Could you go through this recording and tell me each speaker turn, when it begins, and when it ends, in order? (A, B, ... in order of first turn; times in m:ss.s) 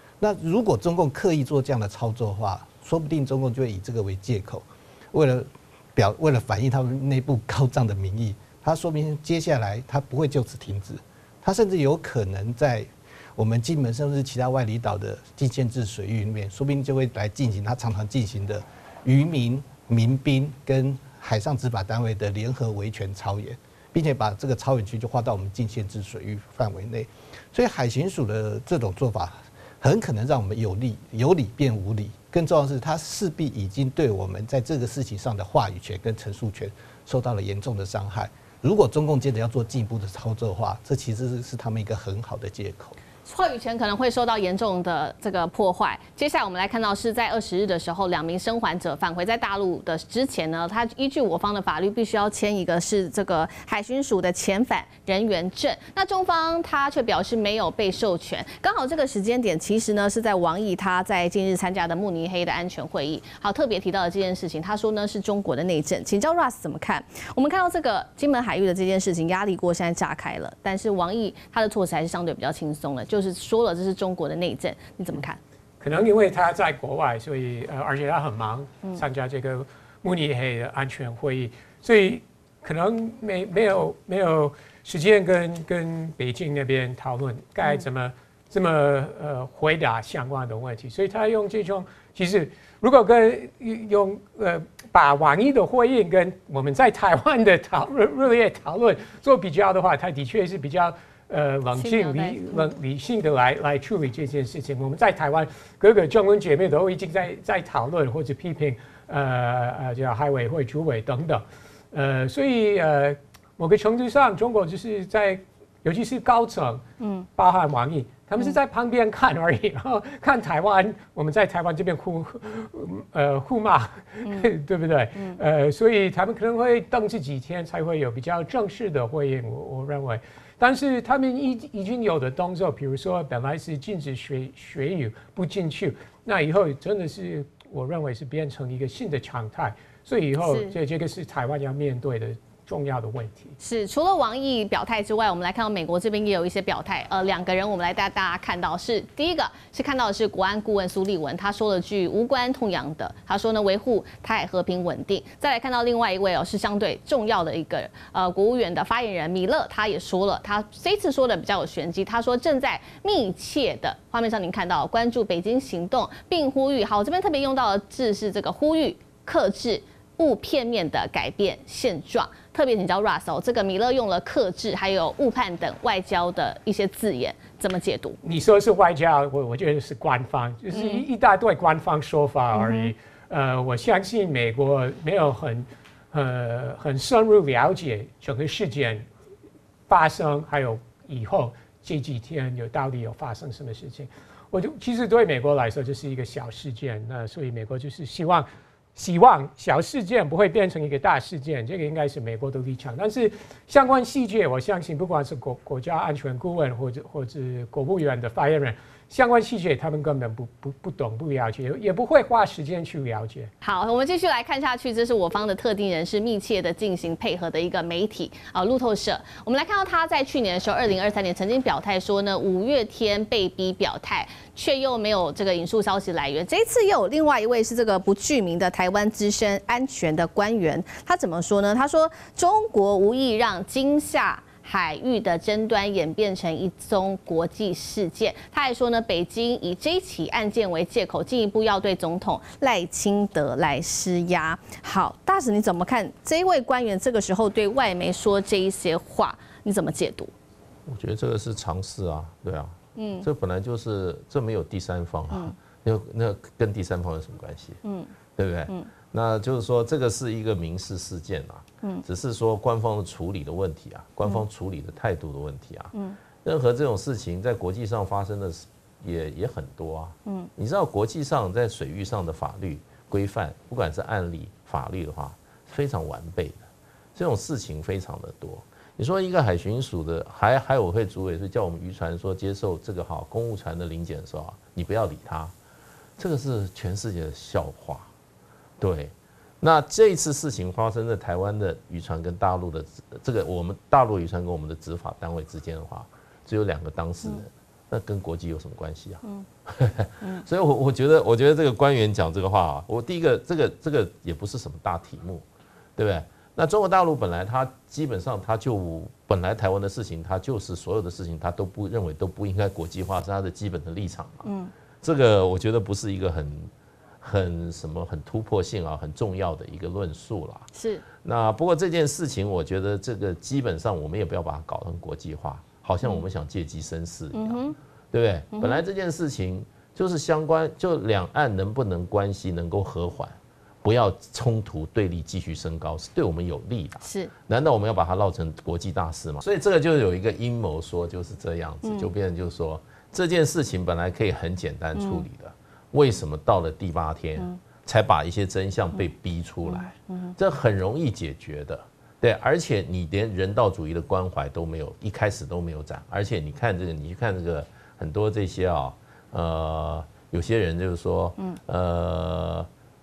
0:00.2-0:43.0 A
0:43.3-1:15.4 B
1:15.8-1:56.8 C
1:41.7-1:42.7 B
1:57.0-1:57.3 B
1:57.4-2:23.5 C
2:04.2-2:04.5 B
2:05.2-2:05.4 B
2:20.4-2:20.8 B
2:23.6-2:58.2 B
2:58.2-3:09.1 C
3:00.7-3:01.0 B
3:02.5-3:02.9 B
3:09.9-3:33.5 C
3:33.6-4:10.3 B
4:10.9-4:17.8 D
4:13.0-4:13.3 B
4:17.8-4:18.1 B
4:18.4-4:36.6 D
4:25.9-4:26.2 B
4:37.2-4:45.5 D
4:46.2-4:48.1 D
4:48.8-5:05.4 D
5:06.0-5:14.5 D
5:14.4-5:14.7 B
5:15.0-5:20.7 D
5:20.7-5:21.0 B
5:21.2-6:02.7 D
5:27.3-5:27.8 B
5:28.5-5:28.8 B
5:37.0-5:37.3 B
5:41.8-5:42.1 B
5:45.0-5:45.3 B
5:49.7-5:50.4 B